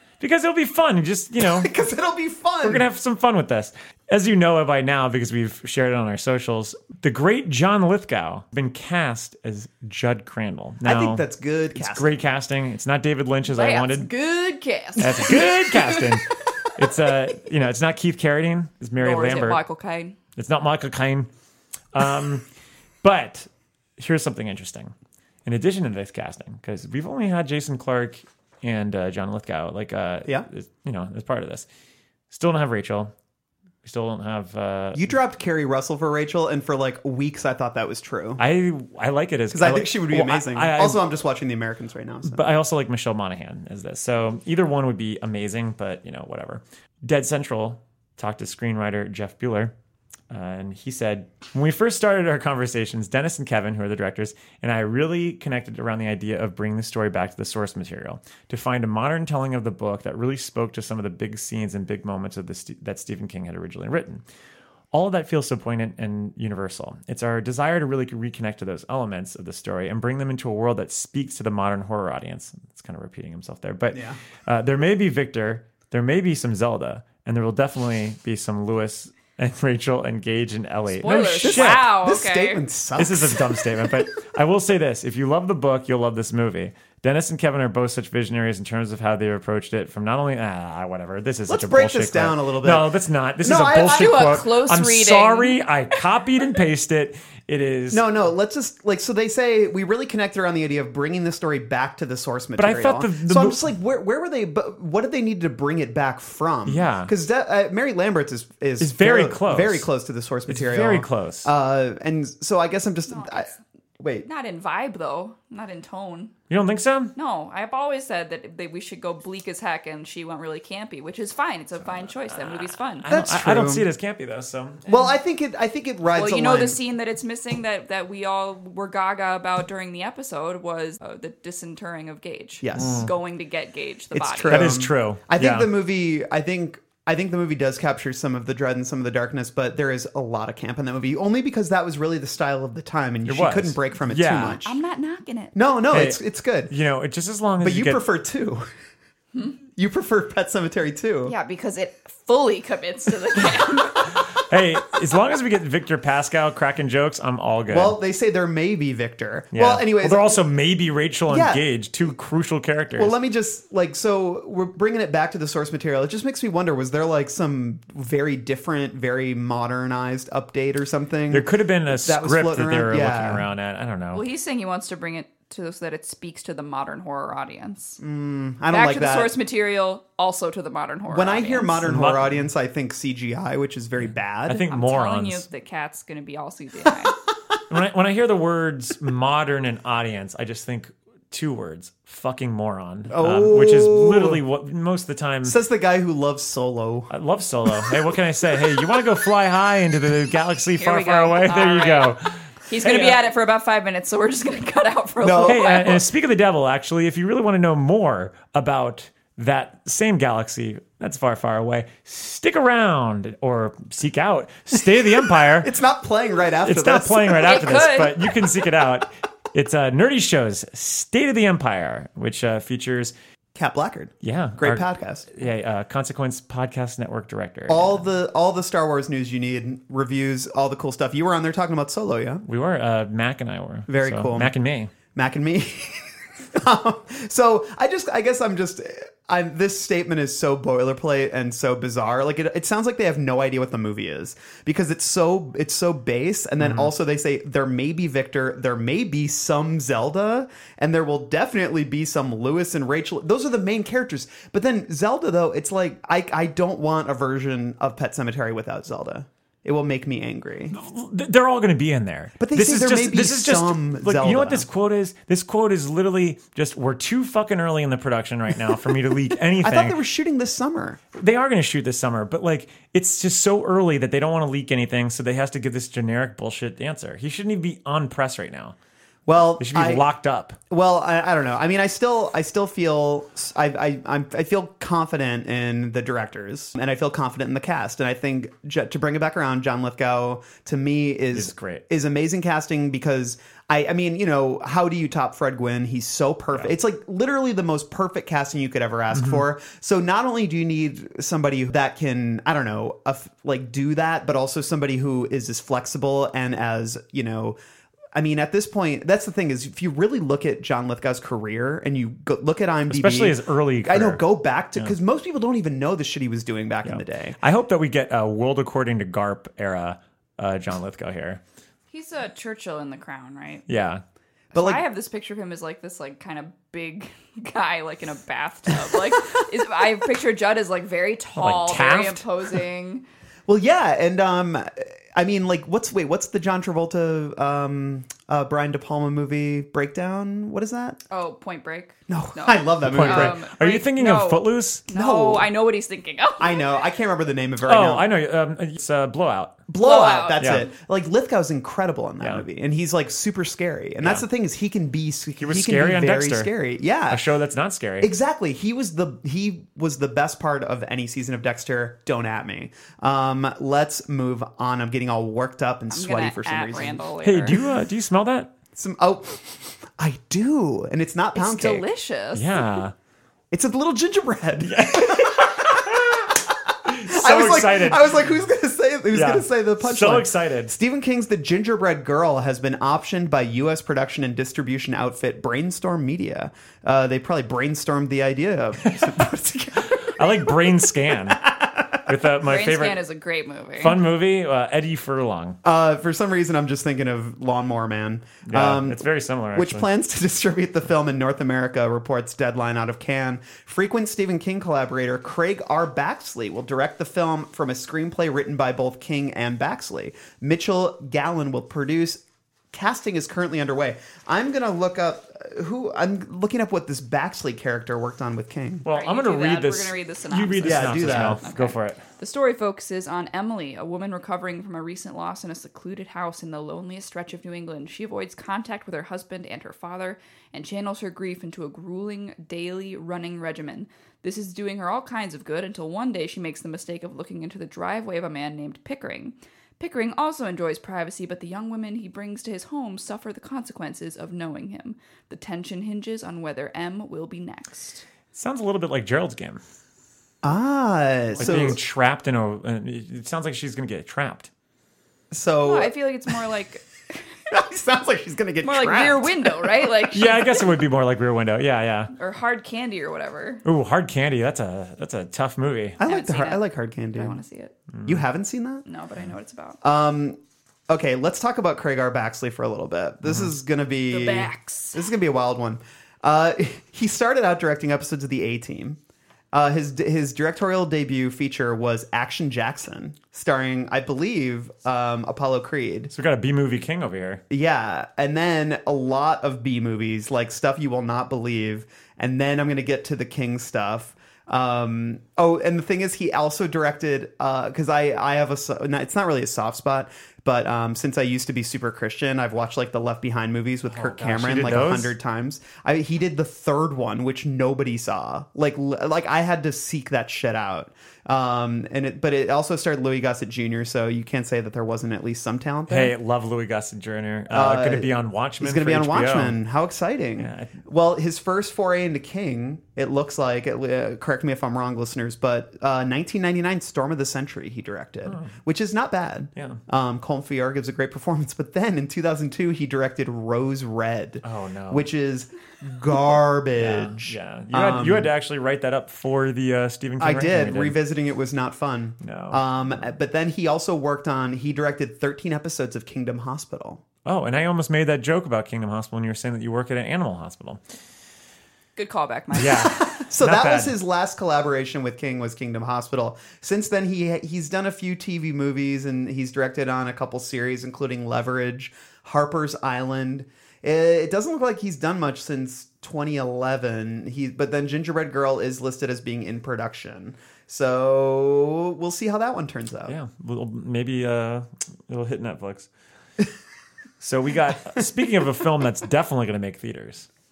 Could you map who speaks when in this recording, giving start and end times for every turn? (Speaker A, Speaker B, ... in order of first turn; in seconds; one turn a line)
Speaker A: 0.2-1.7
Speaker B: 1.4-2.9
Speaker A: 2.6-11.2
Speaker B: 10.8-12.2
Speaker A: 11.8-14.1
Speaker C: 13.5-16.0
Speaker A: 15.0-19.6
Speaker C: 19.0-20.2
Speaker A: 20.4-21.3
Speaker A: 21.9-22.5
Speaker A: 23.0-24.9
Speaker A: 25.5-31.7
Speaker A: 32.3-33.1
Speaker A: 33.8-35.1
Speaker B: 35.0-38.4
Speaker A: 38.4-41.0
Speaker B: 39.5-42.4
Speaker A: 42.2-49.7
Speaker A: 50.3-64.2
Speaker A: 64.9-81.9
Speaker B: 73.9-74.2
Speaker C: 81.0-82.6
Speaker B: 81.4-83.9
Speaker A: 83.0-98.0
Speaker B: 91.5-94.4
Speaker C: 93.8-95.6
Speaker B: 97.9-114.3
Speaker A: 102.6-103.6
Speaker A: 106.7-107.1
Speaker A: 108.8-109.9
Speaker A: 110.5-111.5
Speaker C: 113.1-113.6
Speaker C: 114.2-116.3
Speaker A: 116.5-117.1
Speaker C: 117.2-123.1
Speaker A: 121.8-124.9
Speaker B: 123.1-123.9
Speaker B: 124.9-126.8
Speaker C: 126.1-134.7
Speaker B: 132.6-133.1
Speaker A: 132.8-133.1
Speaker B: 134.1-144.8
Speaker A: 134.5-135.7
Speaker A: 143.2-144.6
Speaker C: 144.6-145.6
Speaker B: 145.6-146.7
Speaker A: 145.9-148.0
Speaker B: 147.6-148.7
Speaker B: 149.7-151.3
Speaker C: 151.3-154.1
Speaker A: 154.4-158.0
Speaker B: 157.7-160.4
Speaker A: 159.5-163.1
Speaker B: 161.3-161.6
Speaker B: 163.0-173.5
Speaker A: 171.3-174.2
Speaker C: 174.1-178.0
Speaker B: 178.0-179.3
Speaker C: 178.7-181.9
Speaker B: 181.1-184.6
Speaker A: 181.8-182.5
Speaker A: 184.0-185.5
Speaker C: 184.7-187.2
Speaker A: 187.7-195.6
Speaker B: 193.1-194.4
Speaker B: 195.4-197.1
Speaker A: 197.1-203.2
Speaker C: 200.8-206.0
Speaker B: 205.2-205.9
Speaker A: 205.4-215.7
Speaker B: 215.5-218.1
Speaker A: 216.6-223.1
Speaker C: 217.4-218.2
Speaker B: 223.6-225.3
Speaker A: 224.2-228.1
Speaker B: 227.7-232.4
Speaker A: 232.5-234.9
Speaker B: 233.9-234.5
Speaker B: 235.2-260.8
Speaker A: 246.6-246.9
Speaker A: 260.7-270.0
Speaker B: 262.4-264.7
Speaker B: 269.6-271.0
Speaker A: 271.1-278.8
Speaker B: 279.3-280.1
Speaker A: 279.6-280.6
Speaker B: 280.7-307.6
Speaker A: 291.3-291.8
Speaker A: 299.1-299.4
Speaker B: 308.1-317.4
Speaker A: 312.9-314.2
Speaker A: 316.9-321.4
Speaker C: 321.9-323.6
Speaker A: 323.7-324.0
Speaker B: 324.5-324.8
Speaker C: 324.5-333.0
Speaker A: 331.4-332.2
Speaker B: 333.5-341.0
Speaker C: 341.1-346.7
Speaker B: 342.1-343.4
Speaker A: 342.9-344.8
Speaker B: 344.9-345.5
Speaker B: 346.4-348.1
Speaker A: 347.6-349.6
Speaker B: 349.7-357.2
Speaker C: 349.8-350.6
Speaker A: 350.4-350.7
Speaker A: 355.4-356.5
Speaker A: 357.1-358.1
Speaker B: 358.0-367.0
Speaker C: 365.9-367.6
Speaker A: 367.2-368.5
Speaker B: 368.8-371.9
Speaker C: 371.4-372.7
Speaker A: 372.3-372.9
Speaker B: 373.5-376.0
Speaker A: 374.6-376.3
Speaker A: 376.9-378.3
Speaker B: 376.9-392.0
Speaker A: 379.1-380.8
Speaker A: 388.8-389.1
Speaker A: 389.9-391.4
Speaker A: 392.1-393.1
Speaker C: 392.4-394.0
Speaker A: 393.8-395.6
Speaker B: 395.6-418.9
Speaker A: 398.5-399.9
Speaker A: 418.9-422.0
Speaker C: 418.9-448.0
Speaker B: 420.6-421.4
Speaker A: 448.3-449.6
Speaker B: 450.4-451.8
Speaker A: 451.4-454.5
Speaker B: 455.3-455.9
Speaker C: 455.6-456.9
Speaker B: 457.5-459.9
Speaker C: 458.6-460.6
Speaker A: 460.1-462.1
Speaker C: 462.2-463.6
Speaker A: 463.6-466.0
Speaker B: 466.0-467.4
Speaker C: 466.0-467.8
Speaker A: 467.9-468.2
Speaker B: 468.1-468.8
Speaker C: 468.9-469.8
Speaker B: 469.8-479.0
Speaker C: 474.1-475.0
Speaker B: 479.5-486.1
Speaker A: 486.1-487.4
Speaker B: 487.5-516.1
Speaker A: 503.9-505.1
Speaker A: 515.9-519.6
Speaker B: 517.5-538.3
Speaker A: 520.4-520.8
Speaker A: 528.3-528.6
Speaker A: 529.6-529.8
Speaker A: 534.4-535.1
Speaker A: 536.8-541.0
Speaker B: 540.2-547.0
Speaker A: 542.2-542.6
Speaker A: 547.2-550.8
Speaker C: 552.0-553.0
Speaker A: 552.6-554.0
Speaker B: 552.8-573.1
Speaker A: 573.1-575.9
Speaker A: 577.2-580.3